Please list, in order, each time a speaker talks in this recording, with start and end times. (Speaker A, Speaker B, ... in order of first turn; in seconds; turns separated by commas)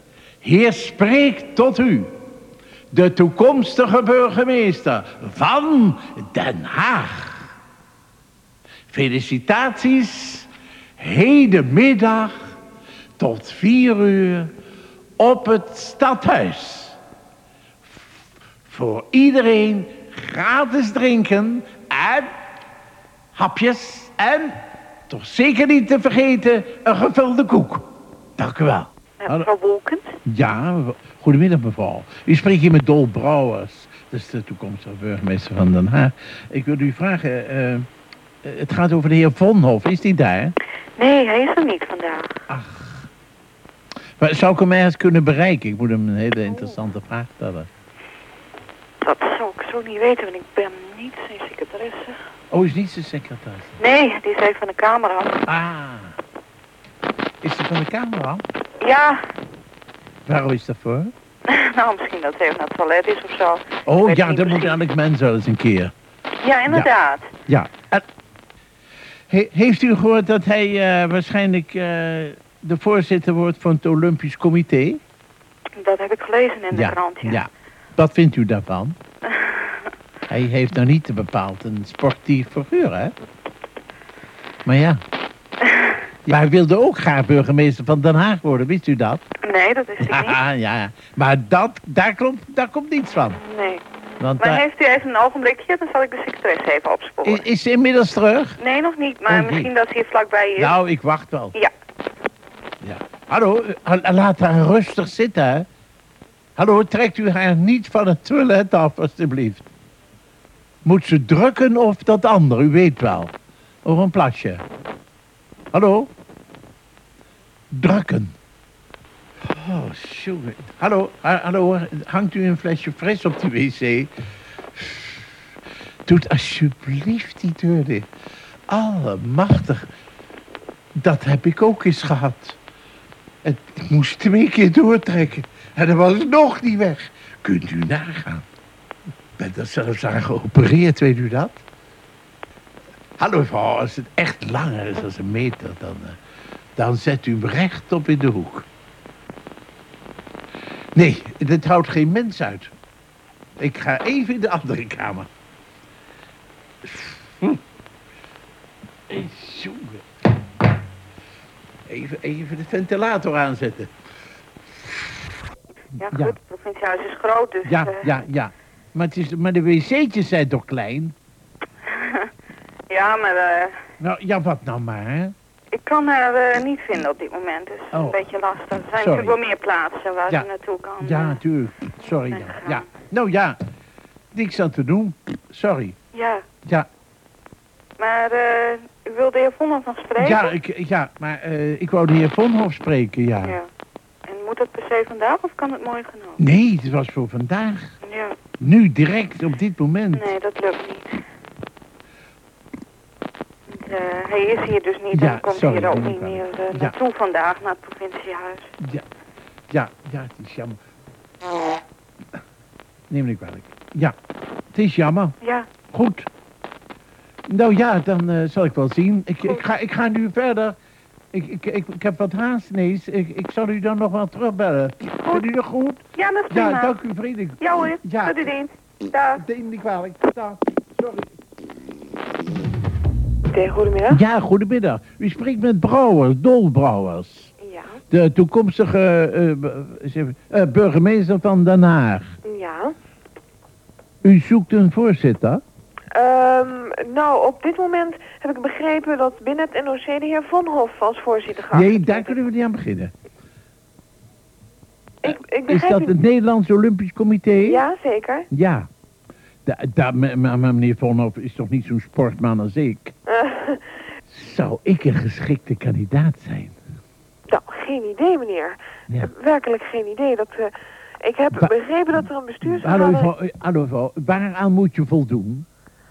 Speaker A: 0.4-2.1, Speaker A: 2.9-7.5, Speaker A: 8.9-12.5, Speaker A: 13.2-14.5, Speaker A: 15.2-17.0, Speaker A: 18.6-22.3, Speaker A: 23.3-24.6, Speaker A: 25.1-27.8, Speaker A: 28.4-29.5, Speaker B: 29.2-30.1, Speaker A: 30.2-37.9, Speaker A: 38.4-40.5, Speaker B: 41.0-42.3, Speaker A: 42.5-43.1, Speaker A: 44.2-47.7, Speaker B: 49.0-52.2, Speaker A: 52.5-53.8, Speaker B: 53.8-55.4, Speaker A: 55.5-56.1, Speaker A: 57.4-58.4, Speaker B: 58.8-59.2, Speaker A: 60.2-61.1, Speaker B: 61.5-64.8, Speaker A: 63.9-65.9, Speaker B: 66.4-67.3, Speaker A: 67.5-68.0, Speaker A: 69.3-75.0, Speaker B: 75.8-77.4, Speaker A: 76.7-79.0, Speaker B: 79.3-79.8, Speaker A: 80.3-83.1, Speaker A: 84.7-85.0, Speaker B: 85.6-86.0, Speaker A: 86.2-89.2, Speaker B: 89.4-90.4, Speaker A: 90.0-93.4, Speaker B: 93.4-93.8, Speaker A: 94.2-94.6, Speaker B: 94.4-97.4, Speaker A: 97.2-98.6, Speaker B: 98.6-100.8, Speaker A: 99.2-99.7, Speaker A: 100.6-101.5, Speaker A: 102.8-105.7, Speaker A: 106.5-109.7, Speaker A: 110.8-113.3, Speaker A: 113.8-114.6, Speaker A: 115.7-116.1, Speaker A: 117.7-118.3, Speaker A: 119.5-124.1, Speaker A: 124.8-125.2, Speaker A: 126.0-128.1, Speaker A: 128.7-129.9, Speaker A: 131.0-132.6, Speaker A: 133.4-138.4, Speaker A: 139.4-141.6, Speaker A: 143.2-146.2, Speaker A: 146.8-148.7, Speaker A: 150.9-152.7, Speaker A: 153.6-155.3, Speaker A: 156.8-157.6, Speaker A: 159.1-160.0, Speaker A: 161.9-163.9, Speaker A: 165.9-166.3, Speaker B: 166.0-168.1, Speaker A: 167.6-171.1, Speaker B: 171.8-172.3, Speaker B: 172.9-173.8, Speaker A: 174.0-175.3, Speaker B: 175.7-181.4, Speaker A: 177.9-178.2, Speaker A: 179.0-179.4, Speaker A: 181.0-183.6, Speaker B: 182.3-182.8, Speaker A: 184.3-186.0, Speaker B: 186.1-186.4, Speaker B: 188.0-190.5, Speaker A: 190.2-193.6, Speaker B: 193.4-193.7, Speaker B: 194.2-196.4, Speaker A: 196.4-197.9, Speaker B: 198.0-198.3, Speaker A: 198.6-200.3, Speaker B: 200.1-201.2, Speaker B: 203.7-208.7, Speaker A: 205.1-206.9, Speaker A: 208.8-209.0, Speaker A: 209.7-210.8, Speaker A: 213.1-214.1, Speaker A: 214.7-215.3, Speaker B: 215.4-215.7, Speaker A: 215.9-216.3, Speaker A: 217.5-220.8, Speaker A: 221.3-228.4, Speaker B: 226.1-226.9, Speaker B: 227.6-229.1, Speaker A: 229.3-231.3, Speaker C: 233.5-234.2, Speaker A: 234.1-237.5, Speaker C: 237.6-237.9, Speaker A: 238.1-242.3, Speaker C: 242.4-242.9, Speaker A: 244.2-245.6, Speaker C: 246.1-252.3, Speaker A: 251.7-253.1, Speaker C: 255.2-256.1, Speaker A: 255.2-257.8, Speaker C: 257.6-258.5, Speaker A: 258.5-258.9, Speaker A: 259.6-263.1, Speaker C: 263.3-263.8, Speaker A: 264.3-266.8, Speaker C: 267.5-273.3, Speaker A: 272.6-275.7